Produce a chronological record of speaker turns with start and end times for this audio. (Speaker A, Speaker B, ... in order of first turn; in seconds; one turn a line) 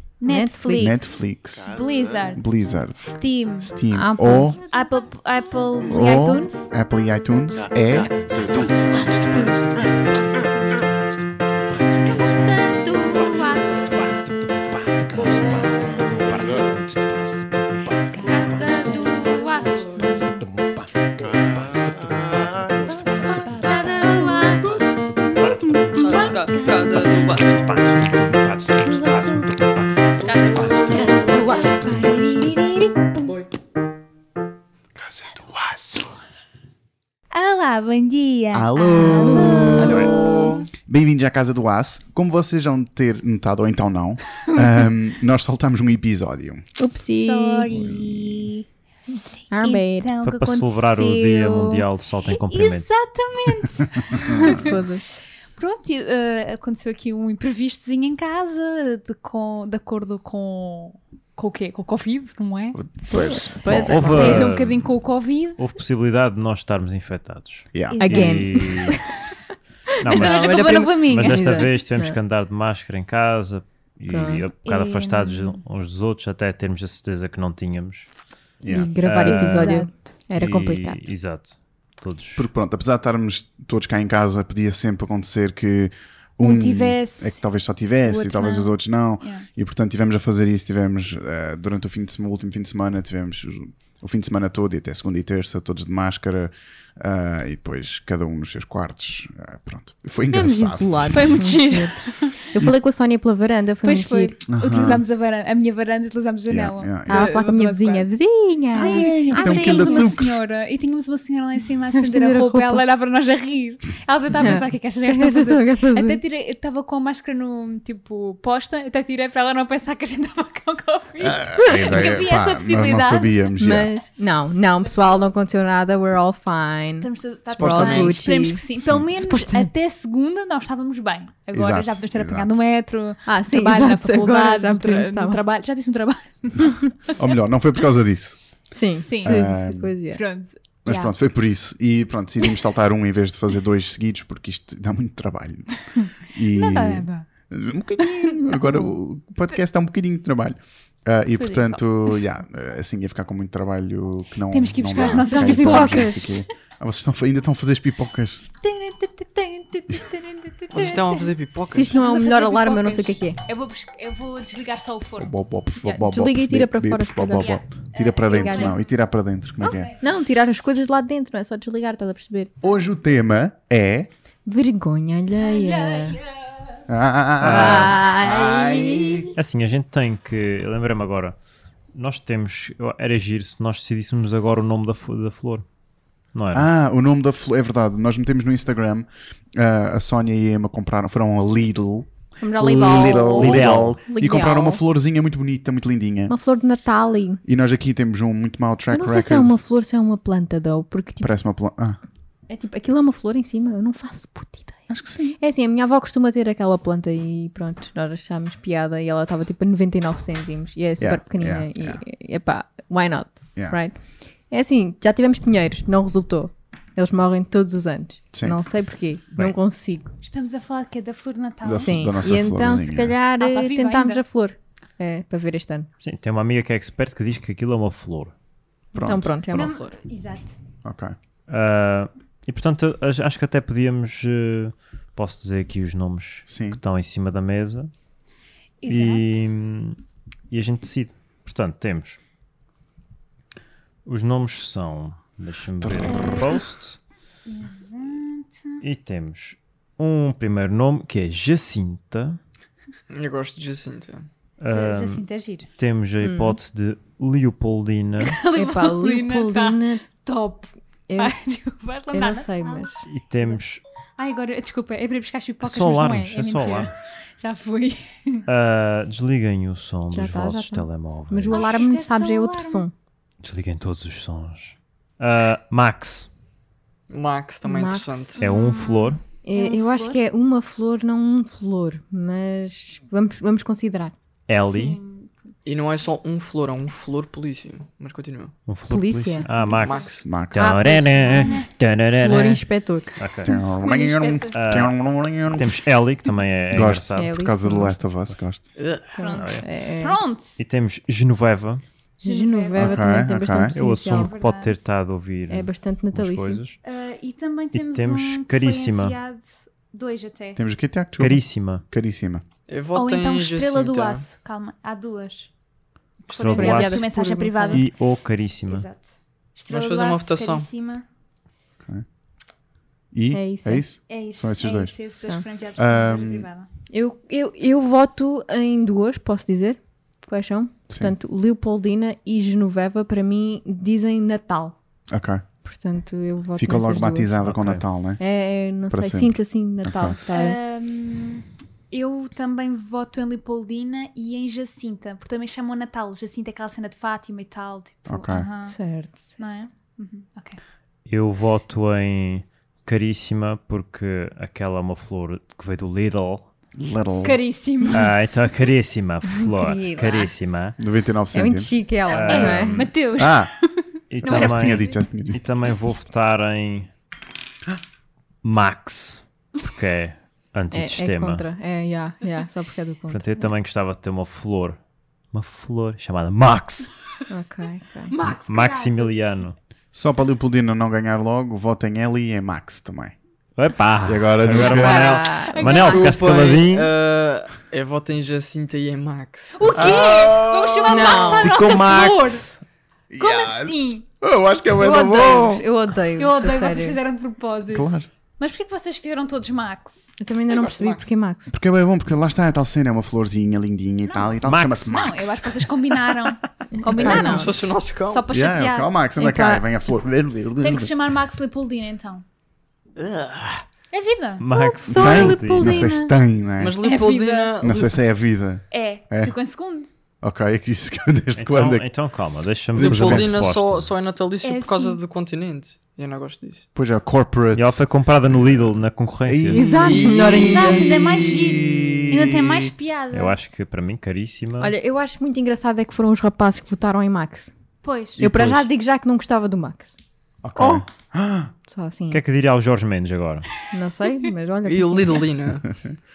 Speaker A: 0.2-2.5
Speaker B: 0.2-1.0
Speaker C: 0.7-4.6
Speaker A: 3.1-3.7
Speaker B: 3.9-4.8
Speaker A: 4.7-6.7
Speaker C: 5.8-8.8
Speaker A: 8.9-10.8
Speaker D: 11.9-13.4
Speaker B: 12.0-13.9
Speaker D: 14.1-17.4
Speaker A: 18.2-20.4
Speaker B: 18.3-20.2
Speaker D: 18.4-18.7
Speaker D: 20.2-24.2
Speaker B: 23.5-24.8
Speaker D: 24.8-32.2
Speaker B: 26.0-27.4
Speaker A: 26.2-26.8
Speaker A: 28.9-29.5
Speaker B: 30.2-32.1
Speaker A: 30.9-33.3
Speaker A: 37.3-40.5
Speaker C: 38.5-40.1
Speaker B: 38.8-40.5
Speaker E: 39.7-40.6
Speaker C: 40.8-46.6
Speaker B: 46.8-47.9
Speaker A: 47.2-48.7
Speaker C: 47.9-48.4
Speaker B: 49.5-50.1
Speaker A: 49.6-54.8
Speaker D: 50.2-52.9
Speaker B: 54.4-55.0
Speaker A: 55.5-62.8
Speaker C: 62.7-64.5
Speaker B: 63.1-64.5
Speaker D: 63.7-64.9
Speaker A: 64.0-65.6
Speaker D: 65.6-68.9
Speaker C: 67.7-68.3
Speaker A: 67.9-69.0
Speaker B: 68.0-68.9
Speaker D: 70.0-78.1
Speaker A: 70.0-71.6
Speaker B: 70.1-72.2
Speaker B: 74.1-74.4
Speaker A: 74.6-75.6
Speaker C: 78.6-78.9
Speaker B: 78.7-81.0
Speaker D: 79.0-82.5
Speaker A: 79.2-80.1
Speaker C: 82.3-101.5
Speaker A: 86.4-87.4
Speaker A: 88.0-89.5
Speaker B: 100.3-104.3
Speaker A: 101.1-102.3
Speaker A: 103.8-108.1
Speaker C: 104.5-105.0
Speaker C: 106.5-107.3
Speaker B: 107.1-110.2
Speaker A: 108.7-123.4
Speaker C: 108.8-110.4
Speaker B: 111.9-112.8
Speaker B: 114.4-116.2
Speaker C: 121.2-123.9
Speaker B: 121.6-122.1
Speaker B: 123.6-128.6
Speaker A: 127.0-136.8
Speaker C: 127.5-128.2
Speaker C: 128.8-129.1
Speaker B: 129.1-129.7
Speaker C: 131.5-132.6
Speaker B: 133.3-135.4
Speaker C: 137.2-138.4
Speaker B: 138.7-140.2
Speaker A: 139.1-139.4
Speaker C: 139.2-139.9
Speaker A: 140.1-141.1
Speaker C: 140.8-145.7
Speaker C: 146.2-158.5
Speaker A: 146.5-147.3
Speaker A: 148.0-148.8
Speaker A: 151.4-152.1
Speaker A: 154.5-156.4
Speaker B: 154.9-156.3
Speaker A: 158.6-161.3
Speaker E: 160.7-161.9
Speaker B: 161.7-163.4
Speaker A: 161.9-165.3
Speaker C: 165.2-169.9
Speaker B: 165.8-167.5
Speaker A: 167.4-168.8
Speaker B: 168.3-168.7
Speaker B: 169.7-172.5
Speaker C: 172.6-174.1
Speaker B: 174.5-176.2
Speaker A: 175.4-176.8
Speaker C: 176.9-179.3
Speaker D: 177.4-177.9
Speaker B: 177.4-179.3
Speaker D: 179.3-181.4
Speaker D: 181.9-185.7
Speaker D: 186.3-186.7
Speaker C: 186.5-196.3
Speaker B: 192.4-194.8
Speaker D: 193.3-194.0
Speaker B: 196.3-197.4
Speaker C: 197.4-199.6
Speaker B: 198.9-201.3
Speaker C: 201.2-202.0
Speaker B: 202.5-204.8
Speaker C: 204.9-205.4
Speaker B: 205.4-214.0
Speaker C: 211.0-212.0
Speaker B: 214.5-220.1
Speaker C: 218.3-218.6
Speaker A: 220.2-221.9
Speaker C: 221.6-223.2
Speaker B: 221.7-225.9
Speaker A: 223.4-224.2
Speaker D: 226.0-228.3
Speaker C: 228.9-229.3
Speaker B: 229.0-230.0
Speaker A: 229.5-230.5
Speaker C: 230.8-231.2
Speaker D: 231.5-237.9
Speaker C: 236.5-236.8
Speaker A: 238.8-239.4
Speaker D: 238.9-240.0
Speaker D: 240.5-242.2
Speaker D: 244.1-247.0
Speaker C: 245.8-246.5
Speaker A: 246.1-246.6
Speaker A: 247.5-248.8
Speaker D: 248.8-252.4
Speaker E: 253.1-254.3
Speaker D: 254.6-258.4
Speaker A: 254.7-255.7
Speaker B: 256.2-256.6
Speaker A: 258.2-263.6
Speaker B: 258.4-260.1
Speaker B: 261.1-261.4
Speaker B: 262.1-263.0
Speaker D: 263.1-263.8
Speaker A: 264.2-268.4
Speaker D: 265.6-266.9
Speaker D: 268.5-271.8
Speaker B: 270.1-272.9
Speaker A: 271.5-272.8
Speaker D: 273.4-276.3
Speaker E: 277.1-278.4
Speaker B: 277.6-278.4
Speaker D: 278.4-279.2
Speaker A: 278.4-280.2
Speaker B: 279.4-284.1
Speaker D: 284.5-285.0
Speaker A: 284.6-285.3
Speaker E: 285.6-288.5
Speaker D: 288.7-292.6
Speaker B: 288.9-289.4
Speaker A: 289.5-290.1
Speaker E: 289.7-290.2
Speaker C: 290.2-290.9
Speaker B: 290.6-291.6
Speaker A: 291.3-291.7
Speaker B: 292.2-293.2
Speaker D: 293.2-293.5
Speaker C: 293.4-295.8
Speaker A: 293.5-294.5
Speaker D: 294.5-294.9
Speaker D: 295.5-297.3
Speaker C: 296.7-298.7
Speaker B: 297.1-297.9
Speaker E: 298.8-299.0
Speaker B: 299.1-300.2
Speaker A: 299.2-300.6
Speaker D: 299.4-299.6
Speaker D: 300.6-301.8
Speaker A: 302.2-303.1
Speaker B: 302.2-304.3
Speaker C: 302.8-303.8
Speaker D: 303.7-306.8
Speaker A: 304.1-304.7
Speaker B: 305.5-306.6
Speaker A: 306.8-310.6
Speaker D: 307.7-309.1
Speaker C: 310.6-312.4
Speaker D: 311.2-311.8
Speaker E: 312.7-314.2
Speaker A: 312.9-315.5
Speaker A: 316.2-317.9
Speaker D: 316.3-317.0
Speaker B: 316.5-317.9
Speaker D: 317.7-318.9
Speaker A: 318.7-321.0
Speaker E: 319.7-320.7
Speaker C: 323.1-325.0
Speaker B: 323.3-323.8
Speaker A: 324.1-326.7
Speaker C: 325.8-326.5
Speaker B: 326.9-334.8
Speaker C: 335.1-335.4
Speaker B: 335.6-337.3
Speaker C: 336.6-338.2
Speaker D: 337.4-337.8
Speaker B: 338.2-340.6
Speaker C: 338.9-340.2
Speaker A: 340.3-348.8
Speaker C: 348.1-348.5
Speaker B: 348.7-349.4
Speaker A: 349.4-350.6
Speaker D: 351.1-356.5
Speaker C: 356.8-357.4
Speaker A: 357.2-358.1
Speaker D: 357.9-360.8
Speaker B: 359.4-360.3
Speaker C: 360.8-362.6
Speaker B: 361.3-362.7
Speaker D: 362.1-362.9
Speaker A: 362.3-365.0
Speaker C: 363.1-363.5
Speaker D: 364.1-366.9
Speaker C: 364.2-365.4
Speaker D: 368.4-371.4
Speaker B: 370.7-373.4
Speaker D: 373.1-374.8
Speaker D: 375.3-376.9
Speaker B: 377.3-378.1
Speaker A: 378.1-379.3
Speaker D: 378.4-379.6
Speaker C: 379.9-383.1
Speaker D: 383.6-386.9
Speaker C: 384.0-385.1
Speaker B: 384.7-385.9
Speaker A: 384.9-386.1
Speaker E: 385.7-389.8
Speaker A: 389.6-392.5
Speaker C: 389.7-391.4
Speaker B: 390.9-391.7
Speaker D: 391.4-392.6
Speaker C: 393.1-395.6
Speaker A: 393.2-394.0
Speaker B: 394.8-397.0
Speaker A: 396.2-400.1
Speaker C: 397.7-398.1
Speaker B: 400.2-401.5
Speaker E: 400.5-401.0
Speaker C: 401.5-405.4
Speaker D: 404.4-404.9
Speaker A: 404.9-408.9
Speaker B: 406.8-407.5
Speaker E: 407.1-408.2
Speaker C: 408.3-410.9
Speaker B: 409.2-409.6
Speaker A: 410.6-412.2
Speaker D: 413.0-413.4
Speaker A: 413.9-414.4
Speaker D: 414.4-415.9
Speaker B: 414.5-416.1
Speaker C: 414.9-416.8
Speaker E: 416.6-418.1
Speaker A: 416.8-417.5
Speaker C: 417.6-419.3
Speaker A: 418.7-419.9
Speaker C: 420.2-421.9
Speaker D: 421.4-423.9
Speaker E: 422.8-426.7
Speaker C: 422.8-423.4
Speaker A: 424.4-425.0
Speaker C: 426.8-428.7
Speaker D: 427.5-429.7
Speaker C: 429.2-432.7
Speaker B: 429.5-431.2
Speaker A: 430.4-433.3
Speaker D: 433.1-434.7
Speaker B: 434.6-437.5
Speaker A: 437.8-438.2
Speaker C: 438.2-438.7
Speaker B: 438.2-439.9
Speaker C: 440.4-441.5
Speaker B: 440.6-440.8
Speaker B: 441.7-442.2
Speaker D: 442.1-443.5
Speaker B: 443.7-445.3
Speaker E: 444.6-445.7